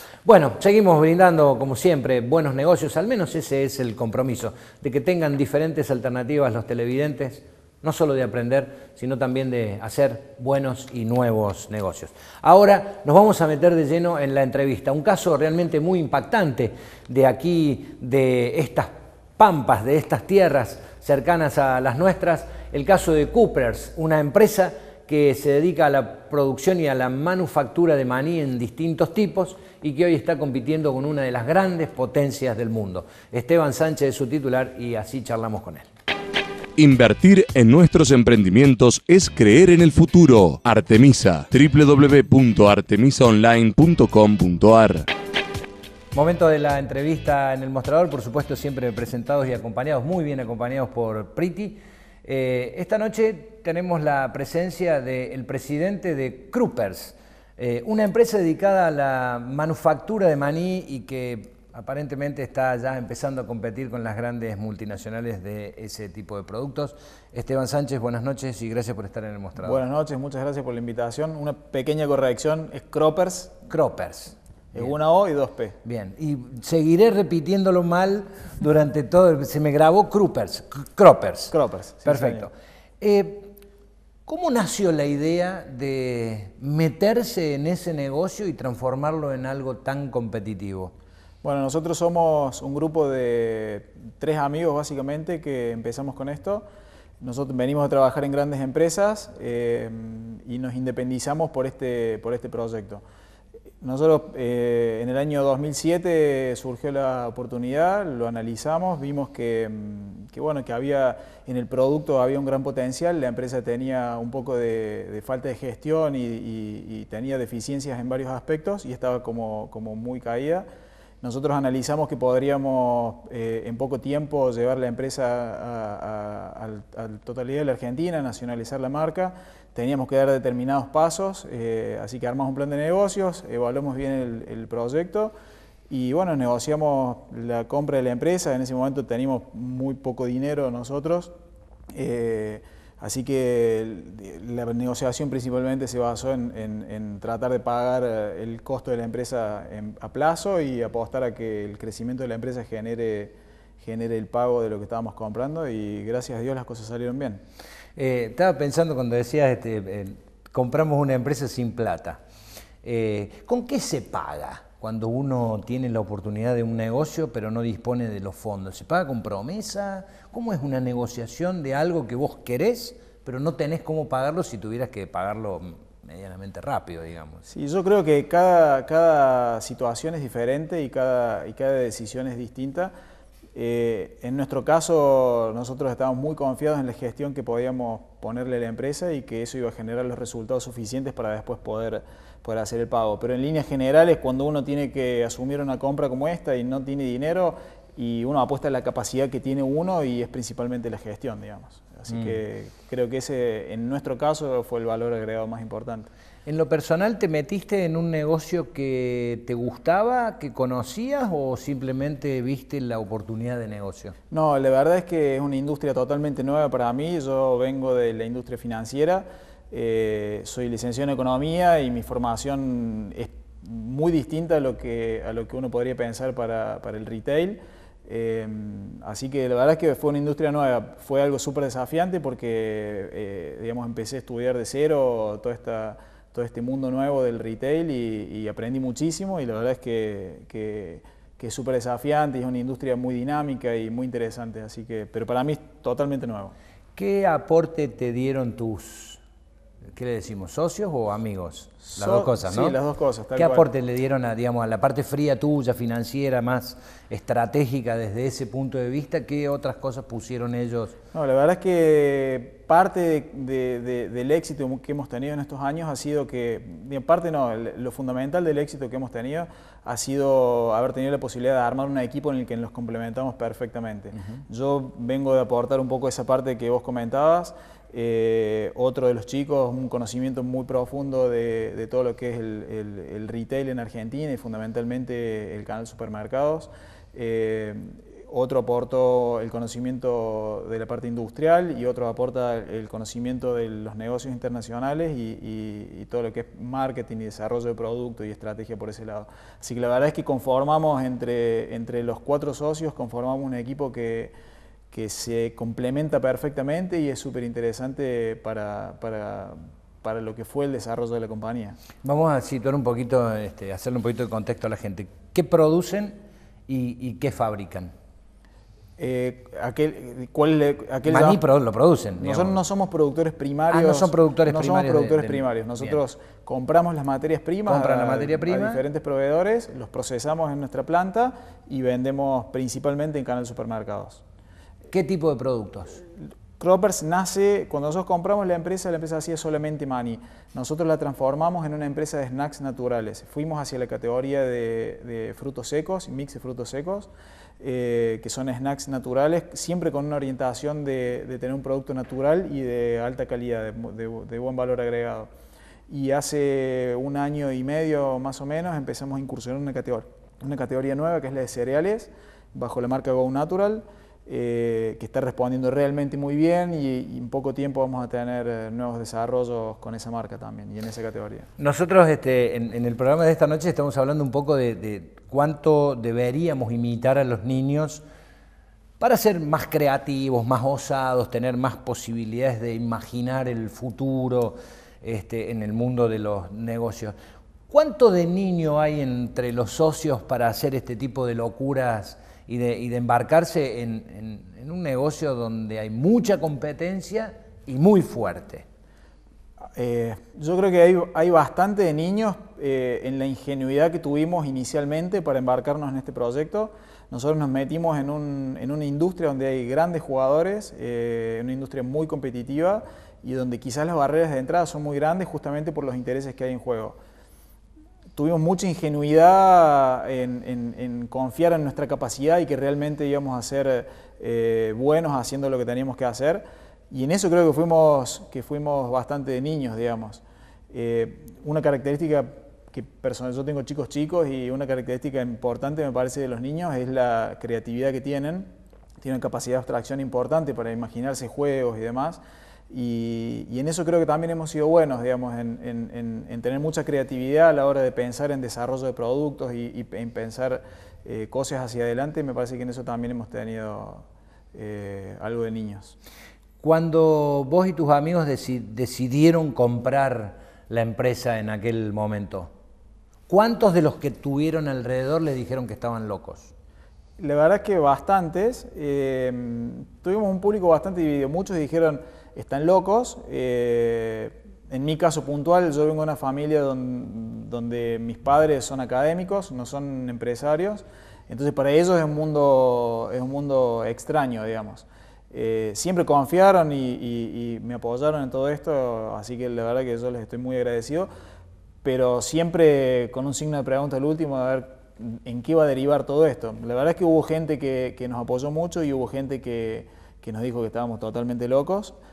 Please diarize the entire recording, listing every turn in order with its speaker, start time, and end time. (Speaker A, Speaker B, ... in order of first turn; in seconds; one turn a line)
Speaker A: 0.2-35.9
Speaker B: 36.8-45.1
Speaker A: 46.1-69.8
Speaker C: 69.6-73.6
Speaker A: 73.7-74.9
Speaker C: 74.7-75.8
Speaker A: 75.8-83.5
Speaker C: 81.5-82.5
Speaker A: 84.3-90.9
Speaker C: 91.4-96.7
Speaker C: 97.2-103.0
Speaker C: 103.8-120.7
Speaker C: 121.2-135.3
Speaker C: 135.9-141.3
Speaker C: 141.9-157.4
Speaker A: 158.0-162.2
Speaker A: 162.8-177.5
Speaker C: 177.5-182.9
Speaker C: 183.5-206.1
Speaker A: 202.1-202.3
Speaker A: 206.5-214.2
Speaker C: 214.3-246.6
Speaker A: 247.0-249.2
Speaker A: 249.9-252.8
Speaker C: 251.9-253.7
Speaker A: 253.3-260.9
Speaker C: 261.1-304.3
Speaker C: 304.9-311.8
Speaker A: 312.0-317.9
Speaker C: 319.0-321.4
Speaker A: 321.1-322.6
Speaker C: 322.2-334.2
Speaker A: 323.7-326.0
Speaker A: 327.7-328.8
Speaker A: 334.9-336.0
Speaker C: 336.6-355.3
Speaker C: 355.9-371.5
Speaker A: 371.6-378.0
Speaker A: 379.0-387.1
Speaker A: 387.7-398.7
Speaker C: 399.8-417.0
Speaker C: 418.1-456.0
Speaker A: 456.6-462.5
Speaker A: 463.3-466.5
Speaker C: 467.2-491.1
Speaker C: 491.8-501.9